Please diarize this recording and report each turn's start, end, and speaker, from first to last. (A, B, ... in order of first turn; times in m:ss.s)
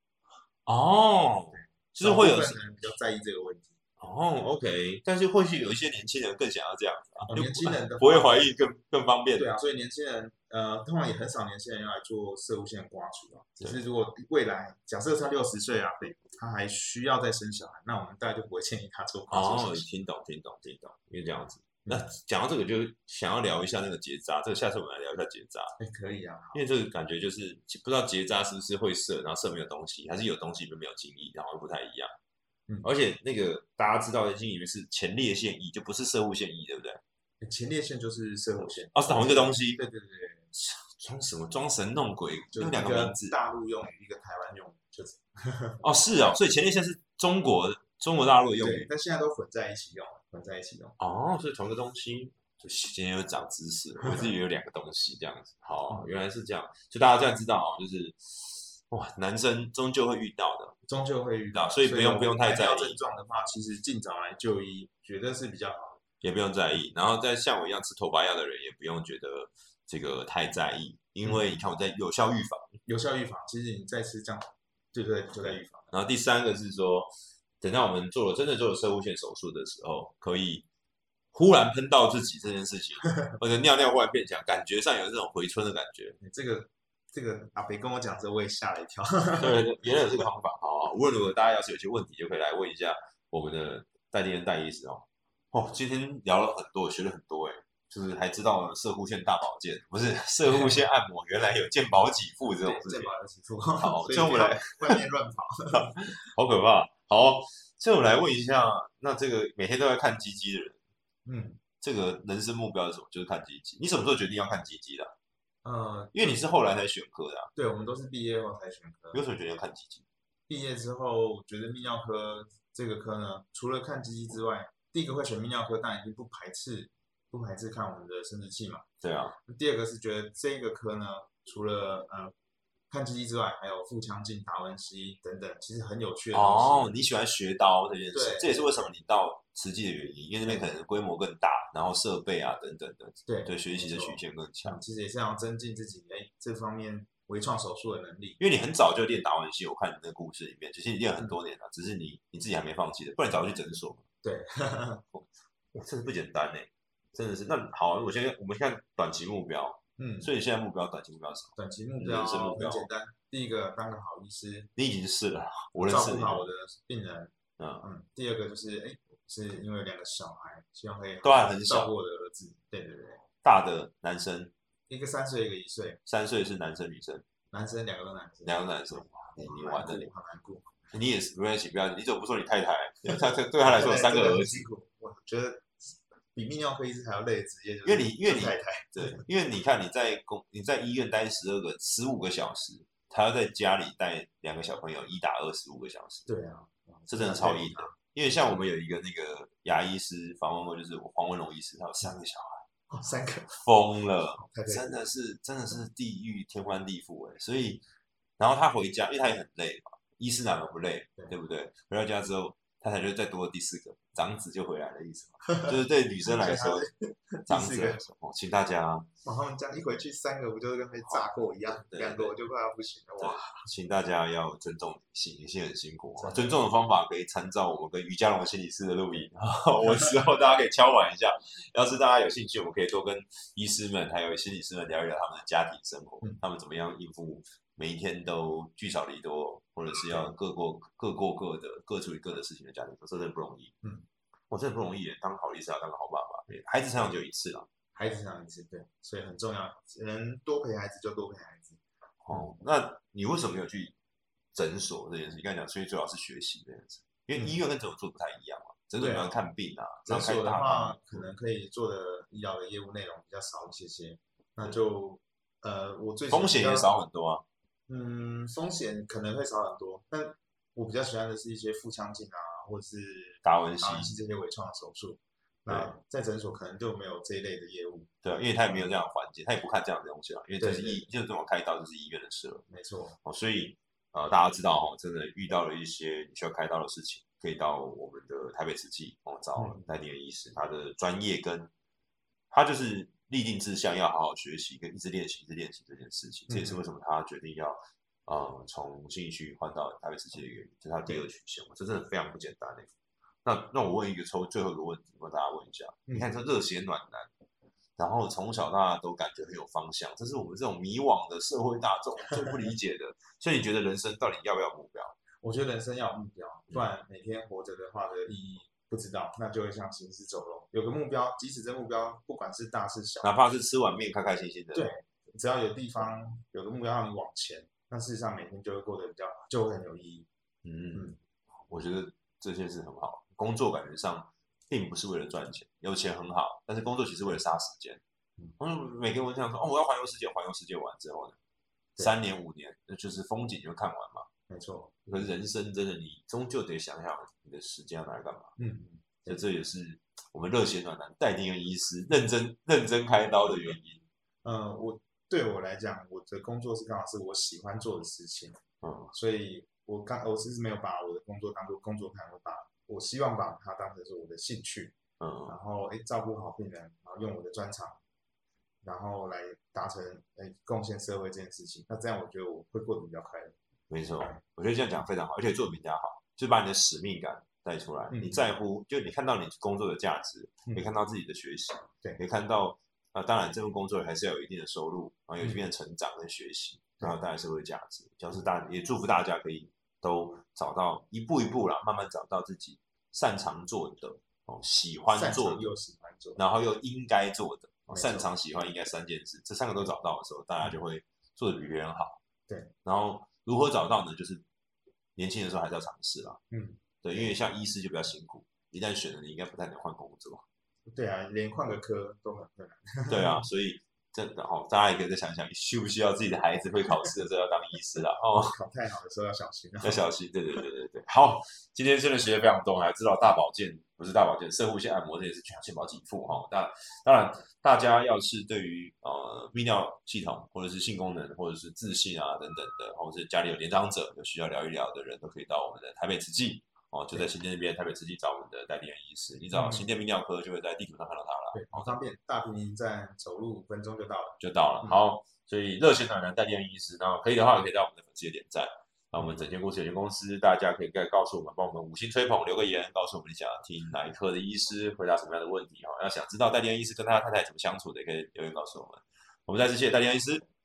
0:00.6-0:02.6 A
0:02.0-0:03.7 B
0:04.0-0:09.5 A
0:07.3-0:08.5 B
0:09.4-0:19.8 B
0:19.3-0:25.7 A
0:25.8-0:26.6 B
0:26.5-0:32.1 A
0:32.8-0:37.0 A
0:37.4-0:40.5 B
0:38.9-0:39.8 A
0:40.5-0:43.3 A
0:42.5-0:45.8 B
0:45.8-0:48.9 A
0:48.6-0:51.0 B
0:51.0-1:00.8 A
1:00.9-1:06.0 B
1:01.5-1:03.0 A
1:06.2-1:12.8 A
1:12.8-1:15.9 B
1:15.9-1:20.6 A
1:21.3-1:26.2 A
1:26.2-1:30.2 B
1:29.4-1:43.1 A
1:40.4-1:40.8 B
1:42.6-1:45.9 B
1:43.8-1:45.0 A
1:45.7-1:50.8 A
1:51.2-1:51.6 B
1:51.8-1:55.1 A
1:55.6-1:56.4 B
1:56.1-1:57.5 A
1:57.6-1:59.2 B
1:59.1-2:00.0 A
2:00.5-2:08.8 B
2:09.0-2:09.4 A
2:09.4-2:12.3 B
2:12.9-2:17.0 B
2:16.3-2:24.8 A
2:18.1-2:18.7 B
2:20.4-2:20.7 B
2:23.3-2:28.4 B
2:28.4-2:34.0 A
2:34.2-2:35.0 B
2:35.7-2:42.9 A
2:40.0-2:40.3 B
2:41.6-2:44.7 B
2:44.8-2:46.4 A
2:45.8-2:53.2 B
2:47.6-2:47.8 A
2:51.2-2:51.9 A
2:53.4-2:54.5 A
2:54.9-2:56.0 B
2:56.0-2:57.2 A
2:57.5-3:00.8 B
2:58.4-3:00.1 A
3:00.9-3:04.6 A
3:03.1-3:09.2 B
3:07.8-3:16.3 A
3:16.3-3:17.9 B
3:17.1-3:22.6 A
3:22.9-3:23.6 B
3:23.6-3:27.8 A
3:24.4-3:24.9 B
3:28.4-3:36.8 A
3:36.2-3:38.1 B
3:37.5-3:39.1 A
3:39.2-3:43.7 B
3:41.7-3:42.3 A
3:43.2-4:03.7 A
3:46.2-3:46.6 B
4:04.5-4:07.7 A
4:07.9-4:11.8 B
4:12.2-4:13.9 A
4:14.5-4:21.3 A
4:19.0-4:19.4 B
4:20.0-4:26.9 B
4:26.3-4:27.4 A
4:27.9-4:38.9 B
4:33.4-4:34.1 A
4:35.7-4:35.9 A
4:38.2-4:42.6 A
4:40.6-4:41.1 B
4:42.7-4:43.2 B
4:43.2-4:51.7 A
4:49.6-4:49.9 B
4:52.5-5:02.9 A
4:56.5-4:56.8 B
5:03.4-5:07.3 A
5:08.0-5:15.2 A
5:15.4-5:23.3 B
5:23.2-5:24.9 A
5:24.7-5:30.3 B
5:30.6-5:31.1 A
5:31.7-5:38.0 A
5:38.6-5:41.4 A
5:42.0-5:44.3 A
5:44.5-5:45.0 B
5:45.0-5:48.5 A
5:48.6-5:49.4 B
5:49.3-5:54.0 A
5:54.4-5:58.6 B
5:58.8-5:59.1 A
5:59.1-6:04.9 B
6:05.2-6:05.6 A
6:05.5-6:08.0 B
6:08.8-6:13.5 B
6:13.9-6:35.6 A
6:18.1-6:18.4 B
6:35.1-6:36.4 B
6:36.4-6:42.2 A
6:37.9-6:38.3 B
6:42.5-6:42.7 B
6:42.8-6:44.4 A
6:45.2-6:46.4 A
6:46.5-6:47.4 B
6:47.0-6:50.4 A
6:50.9-6:53.4 B
6:53.1-6:58.6 A
6:58.4-7:00.0 B
6:59.8-7:21.9 A
7:19.5-7:19.8 B
7:21.5-7:25.0 B
7:24.4-7:40.4 A